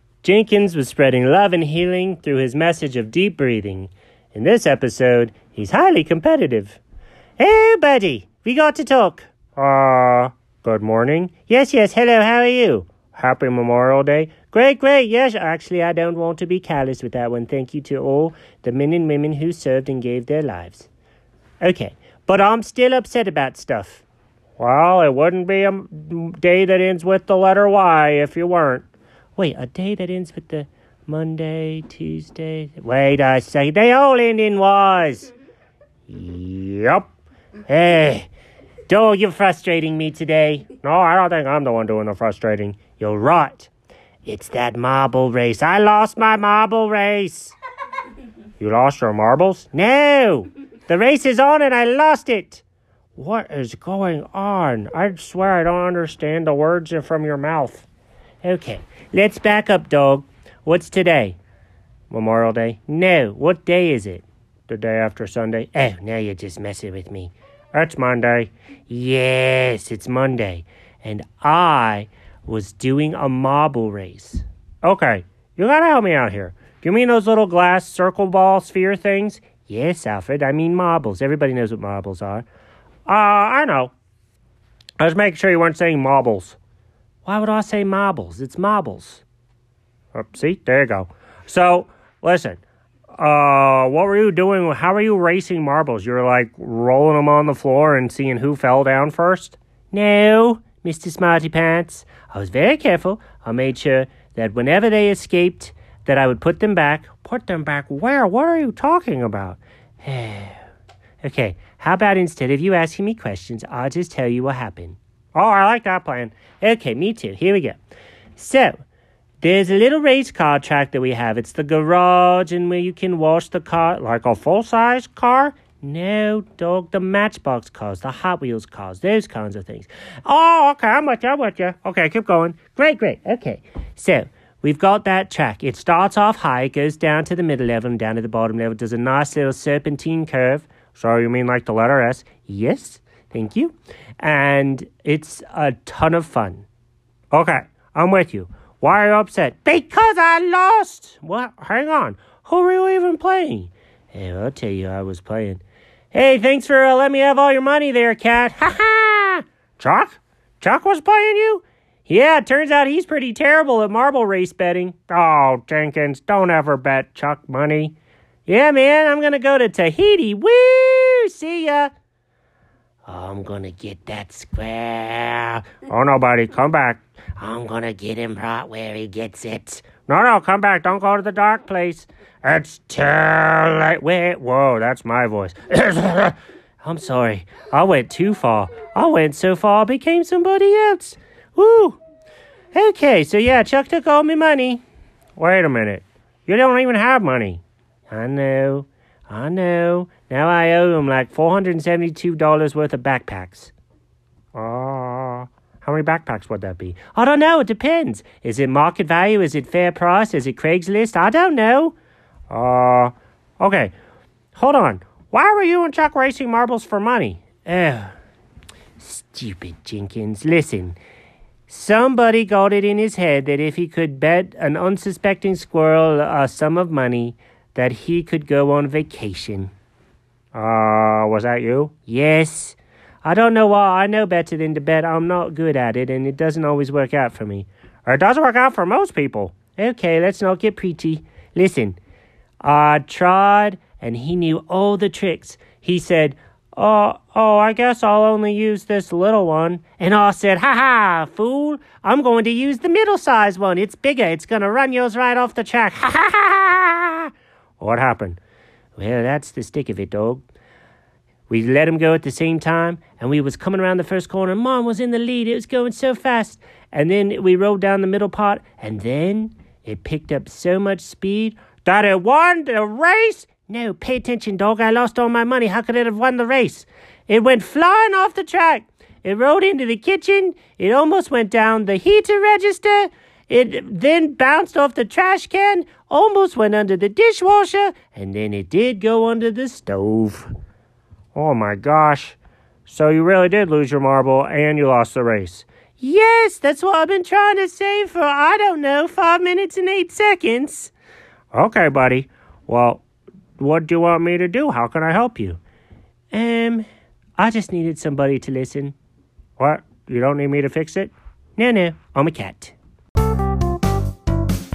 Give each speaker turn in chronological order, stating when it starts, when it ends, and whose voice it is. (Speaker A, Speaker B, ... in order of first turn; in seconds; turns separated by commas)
Speaker A: 0.2-6.8, Speaker A: 7.4-20.9, Speaker A: 21.6-24.0, Speaker A: 24.6-35.3, Speaker A: 36.1-37.1, Speaker A: 37.6-38.3, Speaker A: 38.9-43.7, Speaker A: 44.2-47.5, Speaker A: 48.6-52.6, Speaker A: 53.1-57.9, Speaker A: 58.4-61.4, Speaker A: 62.1-82.5, Speaker A: 83.0-83.9, Speaker A: 85.0-86.6, Speaker A: 87.2-89.2, Speaker A: 90.1-92.6, Speaker A: 93.2-110.6, Speaker A: 111.2-117.8, Speaker A: 118.3-118.8, Speaker A: 119.4-146.7, Speaker A: 147.3-167.9, Speaker A: 168.4-171.9, Speaker A: 173.1-192.0, Speaker A: 192.7-194.8, Speaker A: 195.3-203.7, Speaker A: 204.5-211.9, Speaker A: 212.5-213.9, Speaker A: 214.5-218.1, Speaker A: 219.0-221.0, Speaker A: 221.7-229.7, Speaker A: 230.5-242.0, Speaker A: 242.6-258.4, Speaker A: 258.9-260.4, Speaker A: 261.5-290.5, Speaker A: 291.3-300.9, Speaker A: 301.5-303.0, Speaker A: 303.6-305.6, Speaker A: 306.3-306.9, Speaker A: 307.4-308.9, Speaker A: 309.6-312.7